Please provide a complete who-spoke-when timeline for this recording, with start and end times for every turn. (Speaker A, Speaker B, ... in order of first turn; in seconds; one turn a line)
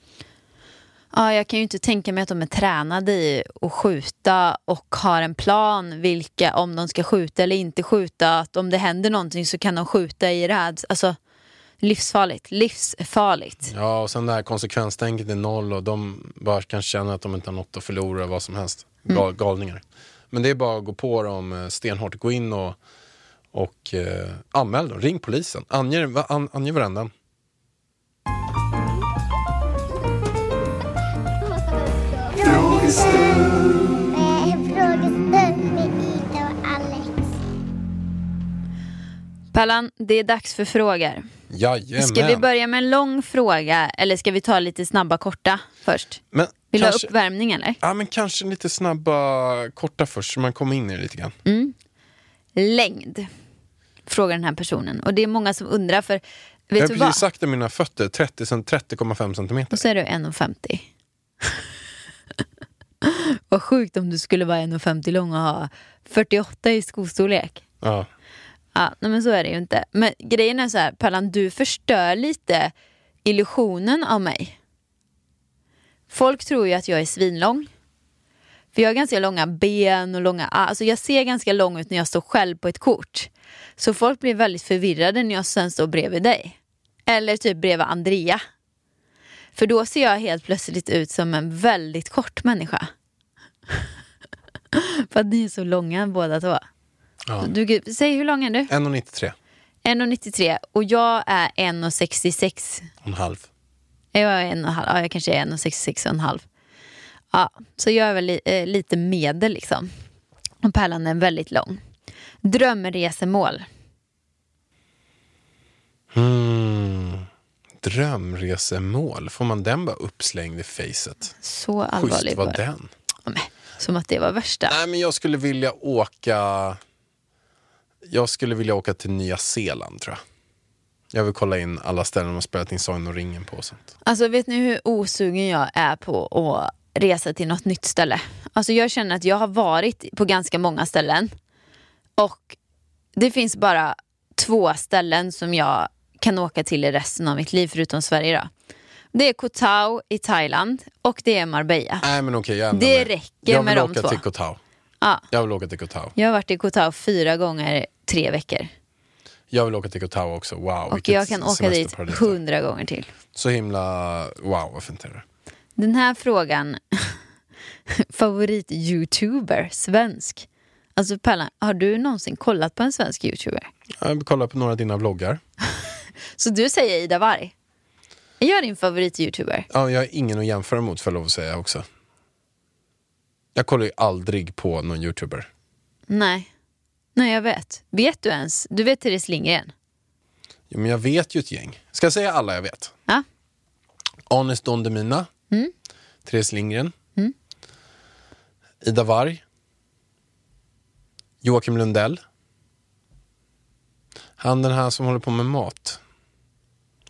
Speaker A: 1.1-11.2
Speaker A: 11.8-13.7
Speaker B: 13.7-22.8
Speaker B: 23.5-27.1
Speaker C: 32.3-33.6
Speaker C: 34.1-37.3
Speaker A: 39.5-41.2
Speaker B: 41.5-42.5
Speaker A: 42.0-47.8
Speaker B: 46.3-47.1
Speaker B: 47.8-51.4
Speaker A: 51.5-51.8
Speaker A: 52.6-53.3
Speaker A: 54.1-57.2
Speaker B: 56.8-59.8
Speaker A: 59.7-60.8
Speaker A: 63.0-67.6
Speaker B: 67.8-68.1
Speaker A: 68.8-72.7
Speaker A: 73.2-74.6
Speaker A: 76.1-77.7
Speaker A: 78.7-88.4
Speaker A: 89.6-92.9
Speaker A: 94.7-96.7
Speaker B: 97.3-97.5
Speaker A: 97.4-98.7
Speaker B: 98.7-99.4
Speaker A: 99.8-102.9
Speaker B: 103.0-103.5
Speaker A: 104.1-106.5
Speaker A: 107.3-109.9
Speaker A: 110.6-111.8
Speaker A: 112.4-113.7
Speaker B: 116.1-117.3
Speaker B: 117.8-121.3
Speaker A: 121.4-122.6
Speaker B: 122.0-122.9
Speaker A: 123.3-124.8
Speaker B: 124.7-126.8
Speaker B: 128.1-130.2
Speaker B: 131.1-133.8
Speaker A: 134.1-141.3
Speaker A: 142.2-142.6
Speaker A: 143.2-148.5
Speaker A: 149.1-152.1
Speaker B: 152.0-154.6
Speaker A: 152.7-154.2
Speaker B: 155.3-156.1
Speaker A: 156.2-158.7
Speaker B: 159.5-162.4
Speaker A: 160.9-163.1
Speaker B: 163.3-165.2
Speaker A: 165.8-167.2
Speaker A: 167.9-173.7
Speaker B: 174.0-175.4
Speaker A: 176.4-177.5
Speaker A: 178.4-179.7
Speaker B: 179.7-181.9
Speaker B: 183.6-185.5
Speaker A: 186.1-186.5
Speaker A: 187.2-189.7
Speaker B: 190.7-192.9
Speaker B: 194.3-195.3
Speaker B: 196.2-196.9
Speaker B: 198.8-199.4
Speaker B: 201.4-202.2
Speaker B: 204.4-206.0